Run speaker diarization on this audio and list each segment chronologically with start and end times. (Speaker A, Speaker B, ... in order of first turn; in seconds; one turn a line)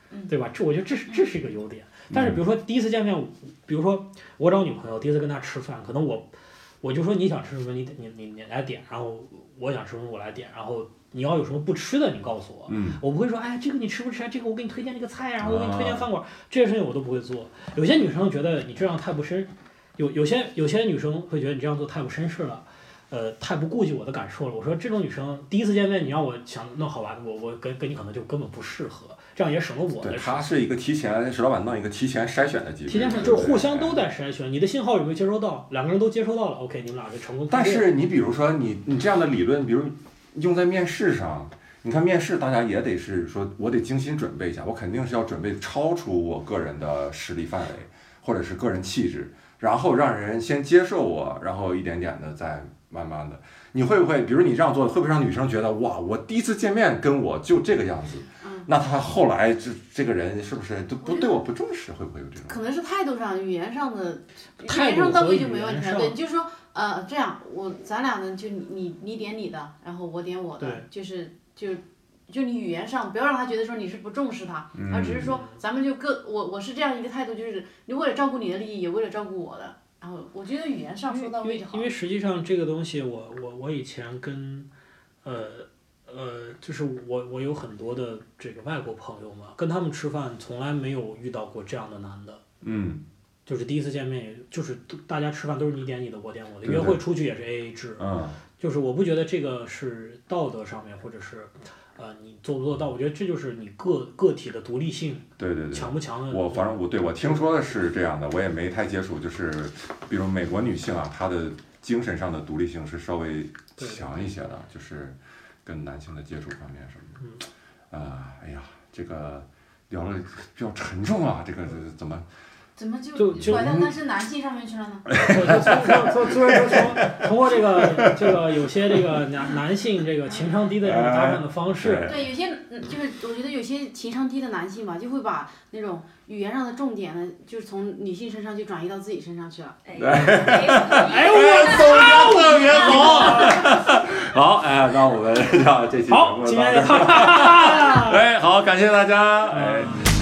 Speaker A: 0.3-6.3
Speaker B: 1.1-1.3
Speaker C: 2.1-2.4
Speaker A: 6.8-30.5
Speaker C: 12.7-13.0
Speaker C: 15.4-16.1
Speaker C: 30.0-34.0
Speaker A: 32.9-37.9
Speaker C: 37.5-62.6
Speaker B: 58.4-58.7
Speaker B: 61.0-61.4
Speaker B: 62.5-81.9
Speaker A: 64.6-66.2
Speaker A: 70.6-70.9
Speaker C: 74.8-75.3
Speaker A: 75.2-75.6
Speaker A: 81.1-84.7
Speaker A: 85.2-92.4
Speaker C: 92.6-93.0
Speaker A: 93.5-106.8
Speaker C: 96.6-97.0
Speaker C: 98.0-98.4
Speaker C: 105.4-117.2
Speaker A: 113.8-114.2
Speaker C: 117.9-122.3
Speaker B: 122.8-125.1
Speaker A: 123.2-123.9
Speaker C: 123.3-123.9
Speaker C: 125.1-129.2
Speaker A: 125.2-132.1
Speaker C: 130.8-132.3
Speaker B: 132.1-139.8
Speaker D: 139.8-143.4
Speaker C: 140.0-150.0
Speaker A: 140.9-143.8
Speaker A: 146.1-148.2
Speaker A: 149.5-150.1